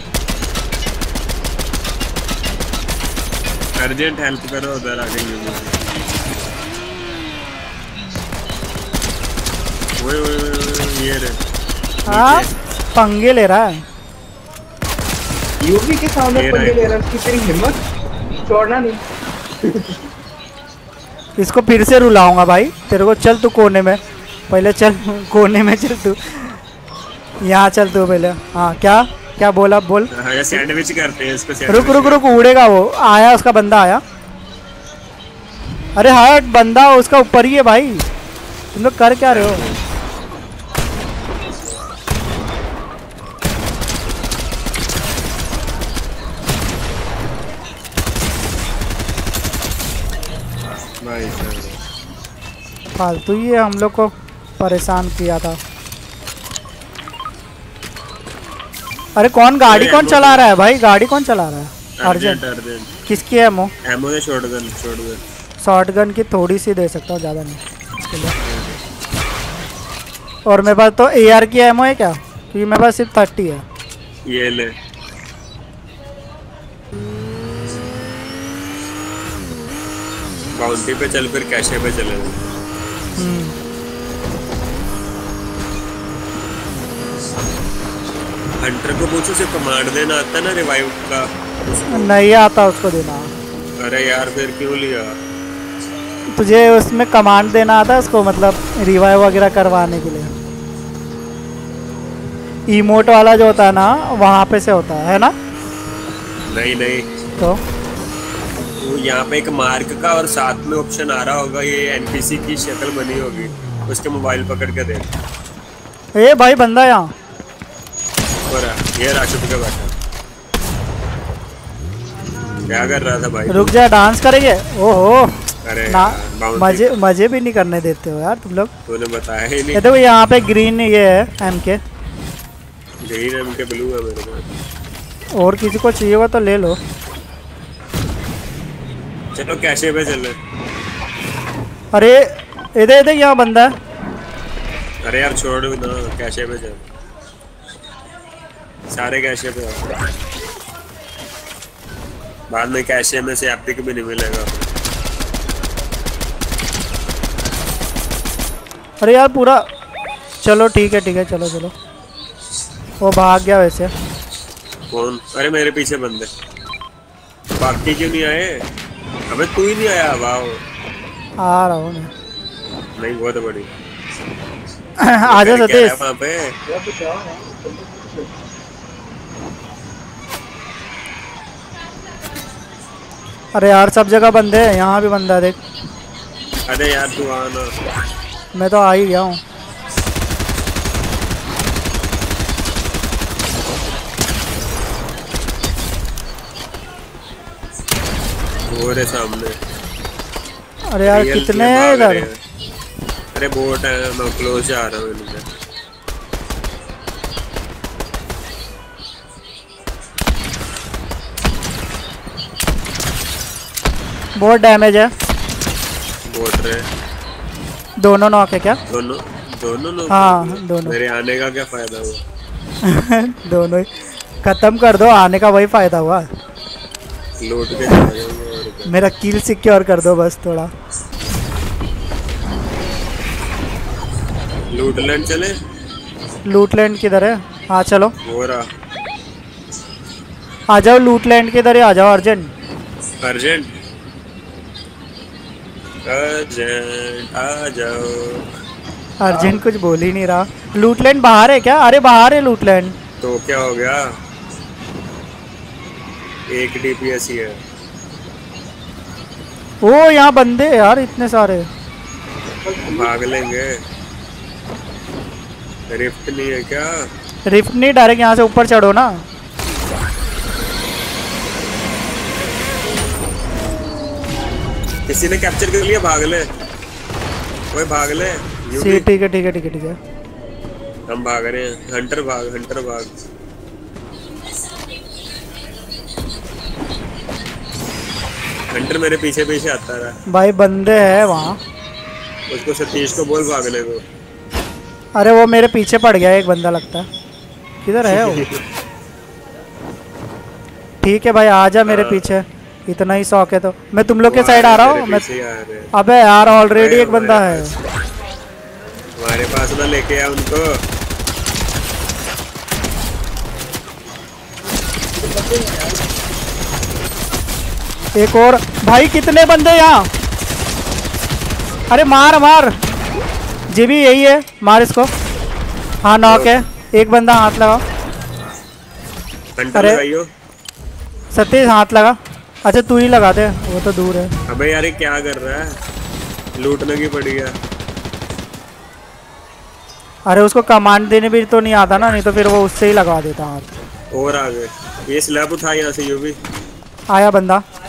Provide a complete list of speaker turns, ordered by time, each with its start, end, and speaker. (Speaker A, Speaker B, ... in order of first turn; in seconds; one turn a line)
Speaker A: 3.8-5.7
Speaker A: 10.0-11.3
Speaker A: 12.1-12.5
Speaker B: 12.1-13.8
Speaker C: 15.6-17.8
Speaker A: 16.3-17.0
Speaker C: 18.4-19.0
Speaker C: 19.6-19.9
Speaker B: 21.4-26.6
Speaker B: 27.4-30.1
Speaker A: 30.1-32.2
Speaker B: 31.7-34.0
Speaker B: 36.0-38.0
Speaker B: 38.7-39.6
Speaker A: 39.3-39.8
Speaker A: 51.0-51.8
Speaker B: 53.0-55.6
Speaker B: 59.2-62.4
Speaker A: 59.7-60.5
Speaker A: 62.0-62.9
Speaker B: 63.1-63.7
Speaker A: 63.8-65.2
Speaker B: 65.6-68.3
Speaker A: 68.4-68.8
Speaker B: 70.5-73.6
Speaker A: 74.2-74.7
Speaker A: 80.6-82.5
Speaker B: 83.2-83.5
Speaker A: 88.6-92.1
Speaker B: 91.9-93.3
Speaker A: 93.8-95.2
Speaker B: 96.4-100.3
Speaker B: 102.7-105.3
Speaker A: 106.5-107.1
Speaker A: 108.8-115.0
Speaker B: 116.2-117.1
Speaker A: 118.5-119.9
Speaker A: 122.7-123.7
Speaker B: 123.5-125.3
Speaker A: 125.6-126.9
Speaker B: 125.9-128.7
Speaker A: 128.9-129.8
Speaker B: 129.7-131.8
Speaker A: 133.0-134.4
Speaker B: 135.4-136.8
Speaker A: 139.3-140.3
Speaker B: 142.8-143.7
Speaker A: 145.0-146.8
Speaker A: 148.9-149.9
Speaker A: 152.5-154.7
Speaker B: 159.0-159.6
Speaker B: 160.4-161.7
Speaker B: 163.0-163.9
Speaker A: 164.9-166.3
Speaker A: 167.6-168.6
Speaker A: 169.3-170.6
Speaker B: 171.4-172.1
Speaker A: 173.0-173.7
Speaker B: 175.0-176.0
Speaker A: 175.2-176.5
Speaker C: 176.7-178.3
Speaker B: 183.5-185.6
Speaker A: 186.7-187.7
Speaker B: 188.5-189.4
Speaker A: 198.7-199.6
Speaker B: 200.9-202.2
Speaker A: 201.0-202.3
Speaker A: 203.3-205.4
Speaker B: 214.4-215.1
Speaker A: 216.3-216.9
Speaker B: 218.0-218.8
Speaker A: 218.9-222.2
Speaker B: 220.1-220.9
Speaker B: 222.8-223.9
Speaker B: 224.4-226.2
Speaker A: 227.4-229.0
Speaker B: 228.8-230.7
Speaker A: 234.7-235.5
Speaker B: 236.5-238.1
Speaker A: 238.2-238.7
Speaker B: 240.7-242.5
Speaker A: 243.2-243.7
Speaker A: 246.0-248.4
Speaker B: 249.2-252.9
Speaker A: 253.2-254.0
Speaker A: 256.5-257.6
Speaker B: 259.8-261.7
Speaker C: 262.6-263.1
Speaker A: 262.9-263.7
Speaker A: 265.9-267.0
Speaker B: 267.5-269.1
Speaker A: 275.1-276.4
Speaker A: 277.7-279.1
Speaker B: 278.7-280.0
Speaker A: 281.1-283.1
Speaker A: 288.7-290.1
Speaker B: 290.3-291.6
Speaker A: 292.5-294.0
Speaker B: 295.2-297.1
Speaker B: 297.8-298.4
Speaker A: 298.0-298.6
Speaker B: 301.0-305.2
Speaker A: 301.9-302.2
Speaker A: 304.2-305.9
Speaker B: 305.9-307.7
Speaker A: 306.7-307.8
Speaker A: 309.2-310.8
Speaker C: 315.2-316.0
Speaker B: 318.2-320.1
Speaker B: 321.9-322.7
Speaker B: 323.7-325.1
Speaker B: 326.1-327.8
Speaker A: 326.2-326.5
Speaker A: 329.6-330.3
Speaker B: 329.7-330.0
Speaker B: 331.3-334.3
Speaker A: 334.5-335.6
Speaker A: 336.6-337.5
Speaker B: 340.2-343.7
Speaker A: 344.1-346.4
Speaker B: 347.1-347.6